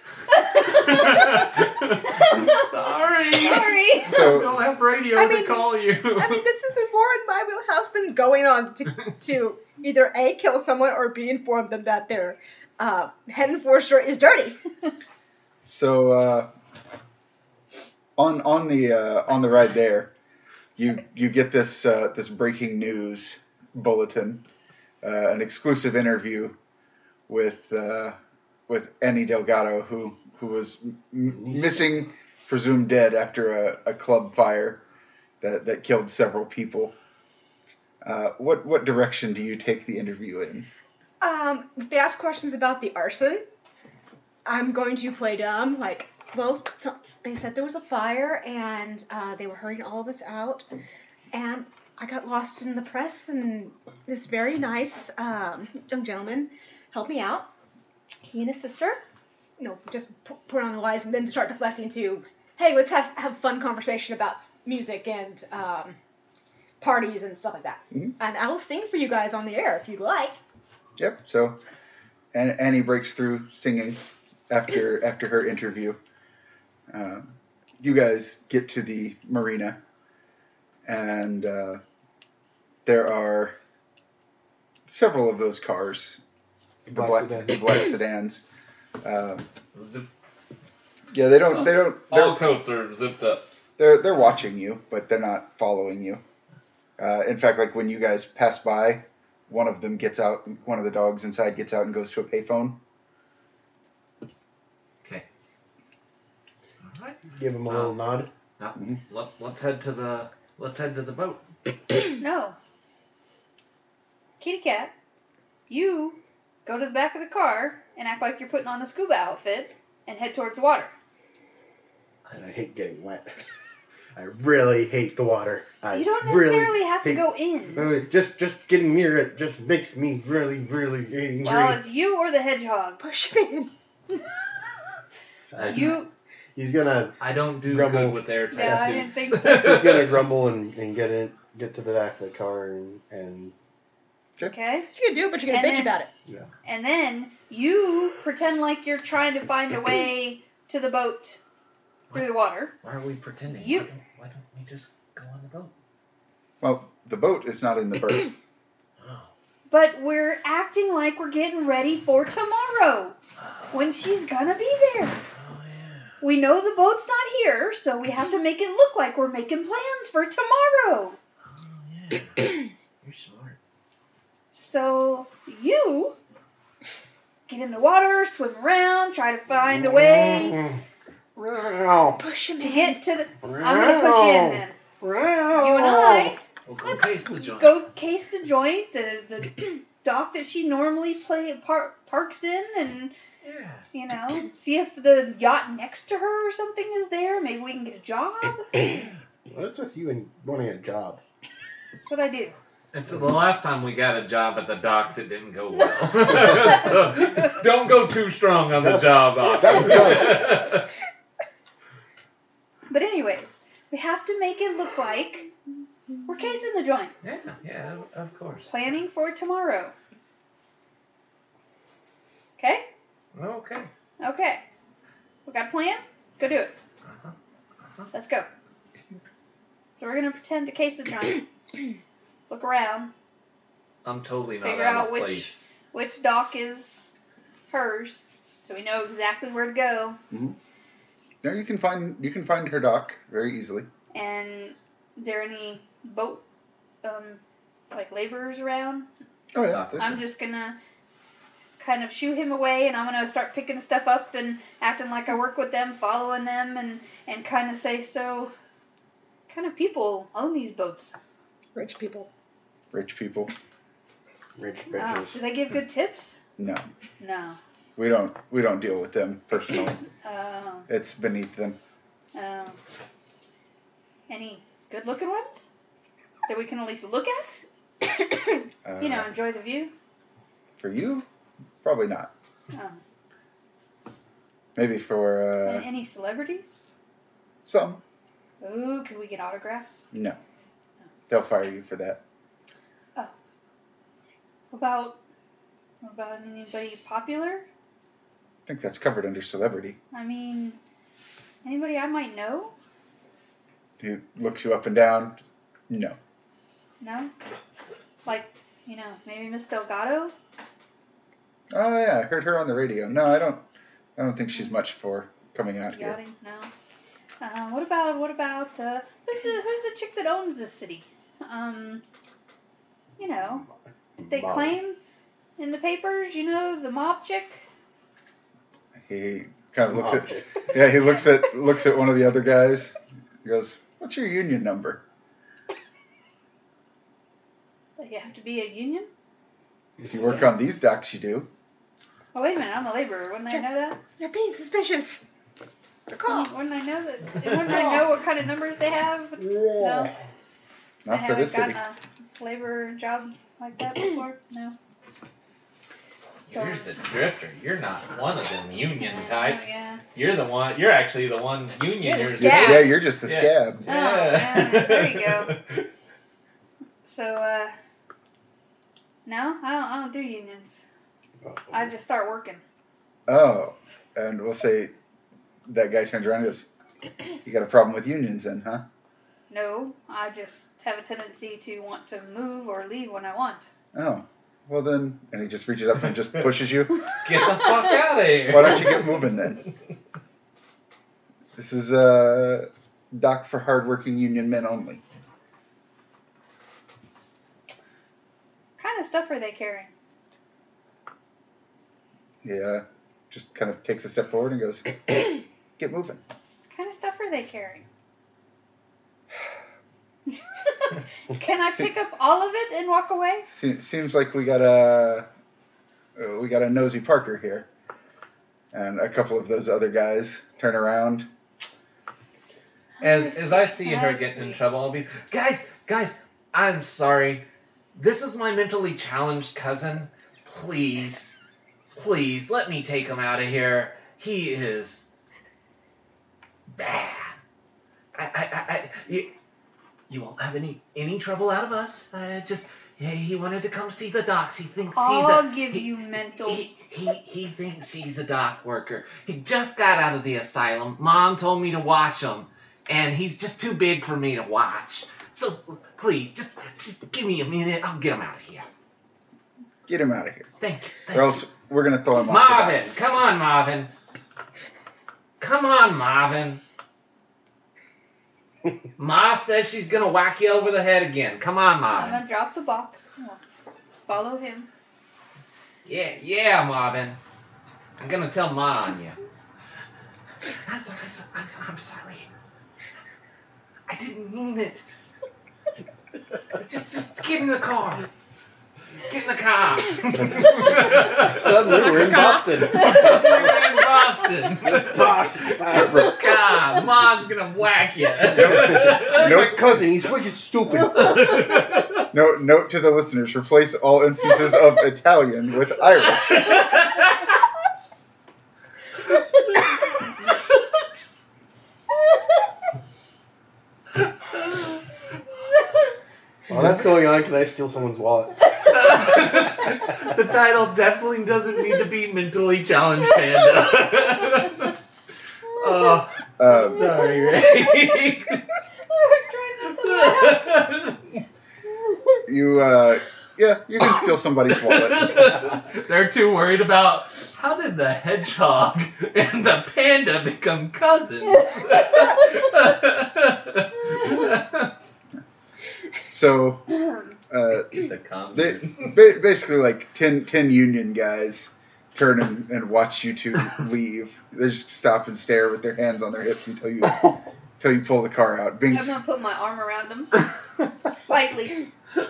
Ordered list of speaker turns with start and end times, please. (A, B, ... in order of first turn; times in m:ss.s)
0:00.4-0:02.7 A
0:00.5-0:06.4 B
0:03.3-0:04.3 A
0:04.0-0:04.6 C
0:05.1-0:14.6 D
0:15.6-0:16.5 C
0:18.2-0:20.1 C
0:20.8-0:24.4 C
0:25.0-0:26.6 C
0:27.3-0:28.2 C
0:28.7-0:34.8 C
0:31.3-0:32.0 E
0:35.4-0:36.9 C
0:38.0-0:40.7 C
0:41.2-0:43.4 D
0:44.4-0:50.6 D
0:51.3-0:57.5 D
0:58.2-0:59.0 D
0:59.6-1:06.0 D
1:06.8-1:10.4 D
1:11.0-1:11.6 C
1:12.3-1:16.0 C
1:16.9-1:19.8 C
1:20.8-1:21.8 C
1:22.8-1:23.6 C
1:24.9-1:26.2 C
1:26.9-1:27.6 E
1:26.9-1:28.4 C
1:29.0-1:29.5 C
1:29.7-1:30.1 B
1:31.1-1:32.4 C
1:31.5-1:33.4 B
1:33.8-1:36.2 C
1:37.0-1:42.8 C
1:46.8-1:47.9 B
1:47.3-1:48.3 E
1:48.6-1:51.4 B
1:52.2-1:52.6 A
1:54.4-1:54.9 A
1:55.7-2:00.9 A
2:02.3-2:03.3 E
2:04.1-2:11.8 E
2:05.9-2:07.8 A
2:11.4-2:13.0 A
2:13.0-2:13.7 D
2:15.5-2:16.0 E
2:15.6-2:16.1 A
2:16.5-2:23.5 E
2:17.2-2:20.3 B
2:18.5-2:19.8 A
2:24.4-2:24.9 A
2:24.9-2:26.1 D
2:25.5-2:26.0 A
2:26.6-2:31.4 A
2:32.1-2:35.7 B
2:32.1-2:32.7 A
2:33.5-2:33.9 A
2:36.6-2:38.3 C
2:39.0-2:39.3 B
2:39.7-2:43.2 A
2:43.4-2:43.8 B
2:43.7-2:45.2 A
2:45.4-2:46.1 B
2:46.2-2:51.2 A
2:51.5-2:53.6 B
2:54.5-2:56.2 A
2:57.5-3:00.6 A
2:59.6-3:00.8 E
3:01.4-3:02.2 E
3:02.2-3:03.0 D
3:02.6-3:04.8 A
3:03.4-3:06.3 E
3:05.5-3:13.1 A
3:06.7-3:07.8 B
3:13.4-3:13.8 B
3:13.9-3:18.9 A
3:19.5-3:21.2 E
3:22.1-3:22.6 A
3:22.9-3:30.9 B
3:28.8-3:30.6 E
3:29.7-3:30.1 A
3:32.9-3:35.5 A
3:36.2-3:37.1 A
3:37.2-3:38.7 B
3:38.7-3:39.9 A
3:42.6-3:42.9 A
3:43.3-3:43.9 B
3:44.2-3:44.6 A
3:45.4-3:46.7 A
3:47.0-3:47.3 B
3:48.1-3:48.5 A
3:49.9-3:51.4 A
3:52.5-3:53.1 A
3:54.0-3:55.7 B
3:54.6-3:57.1 A
3:57.7-4:00.2 A
4:00.3-4:00.6 C
4:01.4-4:03.9 C
4:04.1-4:06.4 A
4:07.0-4:07.4 A
4:07.9-4:09.1 A
4:09.5-4:10.2 C
4:09.7-4:10.2 B
4:10.0-4:10.8 A
4:11.8-4:18.5 A
4:19.5-4:21.1 A
4:21.7-4:22.3 D
4:22.9-4:23.5 C
4:24.6-4:25.4 E
4:24.9-4:26.4 A
4:26.6-4:26.8 C
4:27.2-4:27.6 A
4:28.0-4:30.0 C
4:30.2-4:30.9 A
4:30.9-4:31.8 C
4:32.3-4:32.8 A
4:34.3-4:35.7 A
4:36.4-4:37.6 A
4:38.8-4:39.3 C
4:39.0-4:39.9 A
4:40.8-4:41.2 C
4:41.8-4:42.3 C
4:42.7-4:43.0 A
4:44.7-4:45.9 C
4:45.6-4:46.8 A
4:47.6-4:48.0 C
4:48.6-4:50.0 A
4:50.1-4:50.4 C
4:51.3-4:52.2 C
4:54.7-4:55.2 A
4:56.0-4:57.6 A
4:58.6-5:00.0 C
5:00.1-5:00.8 A
5:01.6-5:02.7 A
5:04.0-5:06.2 C
5:07.0-5:07.3 A
5:08.2-5:10.3 A
5:11.7-5:13.6 C
5:14.2-5:16.2 C
5:15.9-5:16.7 A
5:17.4-5:22.0 A
5:23.2-5:23.6 A
5:24.2-5:24.7 E
5:24.2-5:25.0 A
5:25.6-5:27.6 A
5:29.0-5:35.0 C
5:29.9-5:30.7 E
5:38.0-5:39.1 A
5:40.0-5:40.4 E
5:40.0-5:41.5 C
5:42.3-5:44.0 A
5:44.2-5:45.2 D
5:46.1-5:46.5 D
5:46.2-5:50.1 A
5:49.4-5:50.1 E
5:51.0-5:51.8 C
5:51.1-5:54.8 A
5:56.5-6:05.9 B
5:56.5-5:56.9 A
5:59.0-6:00.0 A
6:02.0-6:02.9 D
6:02.4-6:03.8 C
6:03.9-6:05.6 A
6:07.0-6:07.7 A
6:09.2-6:10.8 A
6:11.4-6:11.8 E
6:11.7-6:12.6 A
6:13.3-6:14.9 C
6:15.7-6:16.7 C
6:17.4-6:18.8 C
6:19.5-6:23.6 A
6:23.9-6:27.0 C
6:27.2-6:29.2 B
6:28.5-6:29.6 C
6:31.6-6:35.0 C
6:38.8-6:39.9 A
6:42.4-6:46.2 C
6:46.7-6:47.8 A
6:50.8-6:53.5 A
6:53.5-6:55.3 C
6:56.2-6:57.7 C
6:58.7-7:01.3 C
7:03.0-7:04.6 A
7:03.0-7:11.3 B
7:11.9-7:15.0 B
7:16.7-7:17.4 B
7:18.1-7:19.3 B
7:20.1-7:25.8 B
7:24.9-7:26.6 A
7:26.5-7:38.7 B
7:39.9-7:40.5 C
7:40.6-7:41.4 B
7:41.1-7:42.8 C
7:42.2-7:43.9 B
7:45.4-7:46.6 B
7:49.0-7:52.2 B
7:51.9-7:53.4 A
7:54.0-7:54.7 A
7:55.8-7:57.2 B
7:58.0-7:59.2 B
8:00.4-8:02.3 B
8:03.9-8:04.8 B
8:06.5-8:08.1 B
8:09.1-8:19.4 B
8:10.9-8:13.5 E
8:11.9-8:12.9 D
8:14.6-8:16.1 E
8:15.7-8:16.2 C
8:18.3-8:19.9 C
8:18.3-8:21.3 E
8:20.9-8:22.0 B
8:22.1-8:26.6 C
8:26.2-8:27.2 B
8:34.5-8:34.8 B
8:36.5-8:38.4 E
8:38.6-8:44.7 B
8:45.5-8:48.4 B
8:46.4-8:46.9 C
8:48.8-8:50.5 A
8:49.7-8:51.2 B
8:52.3-8:55.3 C
8:54.5-9:04.7 B
9:01.5-9:02.2 A
9:06.0-9:19.0 C
9:07.7-9:09.1 B
9:18.7-9:20.2 A
9:21.1-9:21.7 A